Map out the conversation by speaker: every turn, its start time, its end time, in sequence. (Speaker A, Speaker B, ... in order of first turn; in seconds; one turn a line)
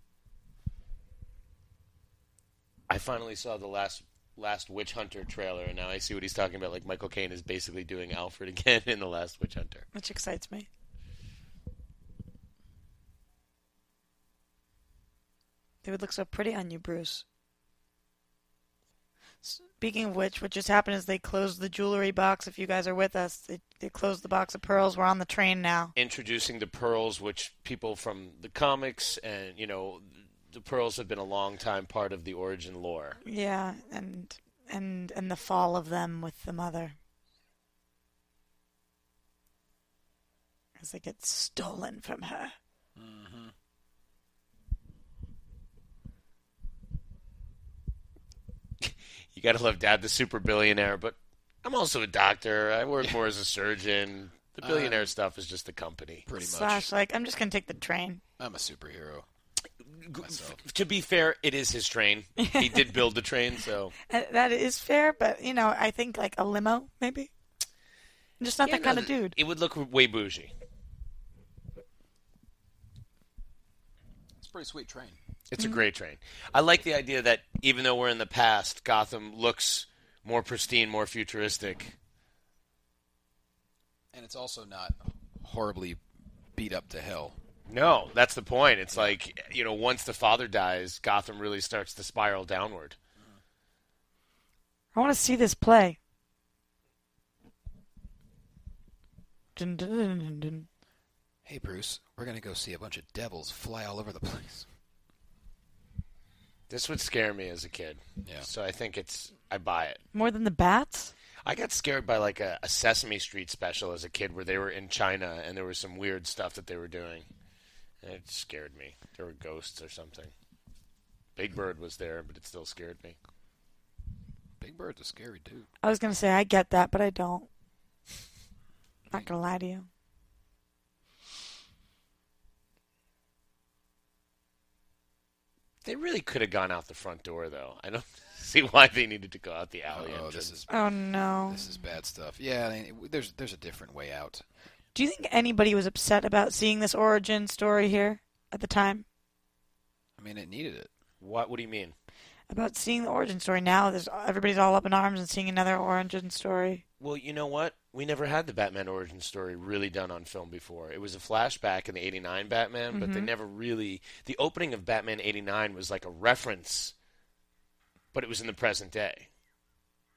Speaker A: 2.9-9.9
Speaker B: 9.9-10.7
Speaker B: 15.8-17.2
Speaker B: 19.4-25.9
Speaker A: 26.0-33.2
Speaker B: 33.2-37.0
Speaker B: 40.8-42.5
Speaker C: 43.0-43.5
Speaker A: 48.8-56.3
Speaker C: 54.6-55.1
Speaker C: 56.2-56.9
Speaker B: 56.4-58.2
Speaker C: 58.4-59.2
Speaker A: 59.9-64.0
Speaker C: 60.2-60.6
Speaker B: 62.4-63.0
Speaker B: 64.1-67.3
Speaker B: 68.4-69.4
Speaker A: 68.6-70.5
Speaker C: 74.4-75.2
Speaker A: 75.5-82.0
Speaker C: 84.1-86.0
Speaker C: 86.6-87.4
Speaker A: 87.7-93.0
Speaker B: 94.9-96.0
Speaker B: 99.6-100.7
Speaker C: 101.5-104.7
Speaker A: 106.7-110.0
Speaker C: 108.2-108.5
Speaker B: 110.1-111.1
Speaker A: 111.5-117.3
Speaker A: 118.0-120.3
Speaker A: 121.4-123.2
Speaker C: 124.6-125.7
Speaker B: 125.8-127.5
Speaker B: 129.1-129.9
Speaker A: 135.8-140.5
Speaker C: 139.9-140.7
Speaker B: 140.7-141.6
Speaker C: 141.5-144.4
Speaker B: 144.9-149.1
Speaker C: 150.2-150.9
Speaker A: 151.2-151.9
Speaker B: 152.5-156.8
Speaker A: 157.0-166.9
Speaker B: 162.9-163.3
Speaker A: 168.1-169.3